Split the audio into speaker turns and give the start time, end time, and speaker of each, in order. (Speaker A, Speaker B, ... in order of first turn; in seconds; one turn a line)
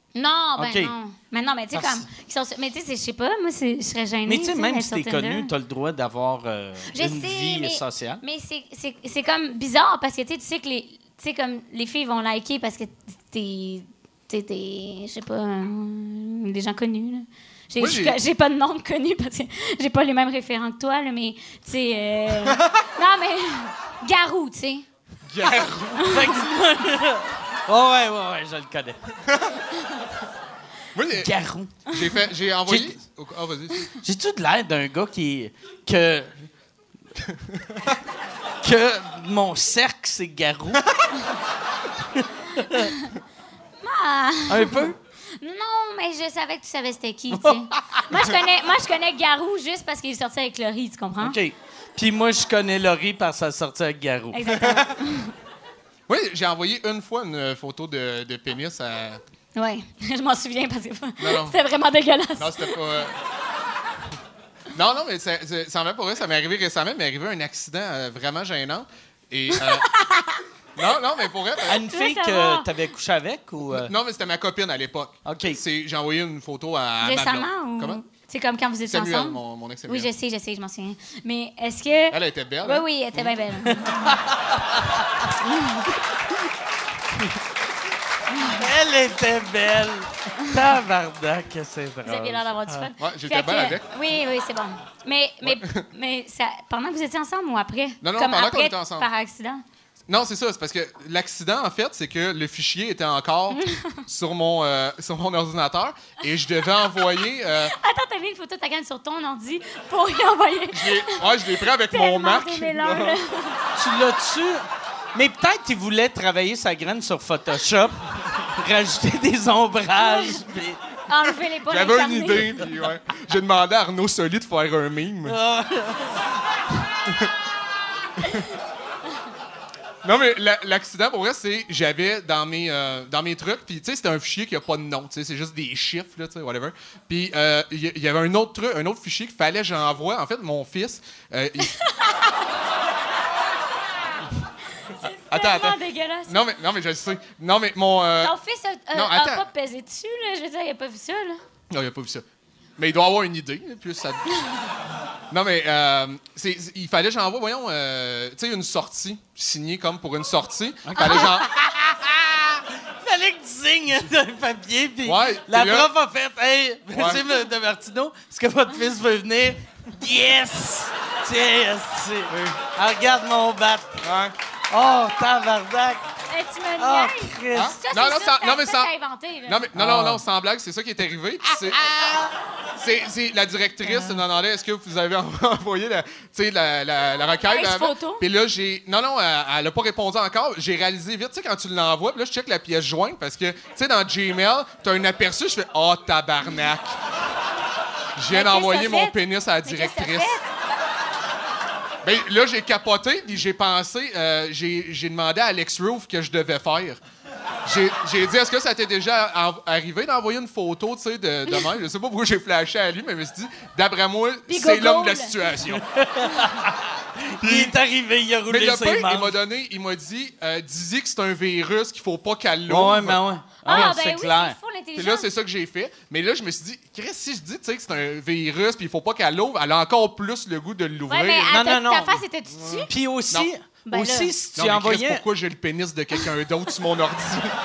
Speaker A: 0.1-5.5
Speaker B: 0.6-0.9
Speaker B: 1.7-2.0
Speaker B: 4.3-8.2
Speaker A: 6.9-24.9
Speaker C: 17.8-18.2
Speaker C: 22.5-22.7
Speaker C: 25.2-26.1
Speaker B: 26.0-29.0
Speaker C: 30.9-31.3
Speaker B: 31.2-31.8
Speaker C: 31.8-33.9
Speaker B: 32.7-32.9
Speaker B: 34.0-36.4
Speaker C: 37.2-37.9
Speaker B: 38.6-40.8
Speaker B: 42.1-42.9
Speaker A: 42.7-43.1
Speaker A: 43.8-51.4
Speaker B: 44.5-45.0
Speaker B: 47.3-48.0
Speaker B: 51.2-54.7
Speaker A: 54.3-55.3
Speaker C: 56.1-59.2
Speaker A: 59.5-62.8
Speaker C: 61.2-61.6
Speaker C: 62.4-63.2
Speaker C: 64.7-69.9
Speaker A: 69.6-70.4
Speaker C: 70.8-71.8
Speaker B: 71.6-73.9
Speaker A: 71.9-72.7
Speaker C: 73.7-78.0
Speaker B: 75.2-75.6
Speaker A: 77.0-84.2
Speaker C: 78.9-80.1
Speaker C: 82.1-82.8
Speaker B: 83.7-85.0
Speaker B: 88.4-92.9
Speaker A: 92.0-99.6
Speaker C: 93.0-93.9
Speaker C: 95.4-95.8
Speaker C: 98.0-99.1
Speaker C: 100.1-107.8
Speaker A: 103.5-104.0
Speaker A: 107.7-113.6
Speaker C: 110.7-113.2
Speaker B: 113.8-120.8
Speaker A: 120.0-120.4
Speaker A: 121.1-122.7
Speaker C: 121.7-125.4
Speaker B: 125.2-126.2
Speaker C: 127.0-127.3
Speaker C: 130.0-141.8
Speaker A: 141.7-142.1
Speaker A: 145.0-146.4
Speaker C: 145.0-148.3
Speaker A: 148.2-151.4
Speaker C: 148.9-149.4
Speaker C: 151.7-152.2
Speaker C: 152.8-154.2
Speaker C: 155.3-161.5
Speaker B: 160.9-174.0
Speaker C: 165.0-165.9
Speaker C: 166.9-167.2
Speaker C: 172.3-172.6
Speaker C: 174.0-174.3
Speaker B: 174.7-176.1
Speaker A: 176.3-179.7
Speaker B: 176.8-177.8
Speaker C: 177.5-178.9
Speaker C: 179.4-181.9
Speaker B: 179.7-180.2
Speaker C: 182.8-197.0
Speaker A: 187.5-188.2
Speaker C: 198.2-200.4
Speaker A: 198.3-200.4
Speaker C: 202.0-207.0
Speaker C: 207.7-215.8
Speaker A: 214.5-215.3
Speaker B: 215.7-219.3
Speaker C: 217.4-217.8
Speaker C: 218.5-223.9
Speaker B: 222.7-224.6
Speaker A: 223.6-225.3
Speaker C: 224.9-231.6
Speaker A: 231.1-232.9
Speaker B: 231.5-232.2
Speaker C: 232.5-233.5
Speaker B: 232.9-235.2
Speaker A: 233.8-234.3
Speaker C: 234.6-237.6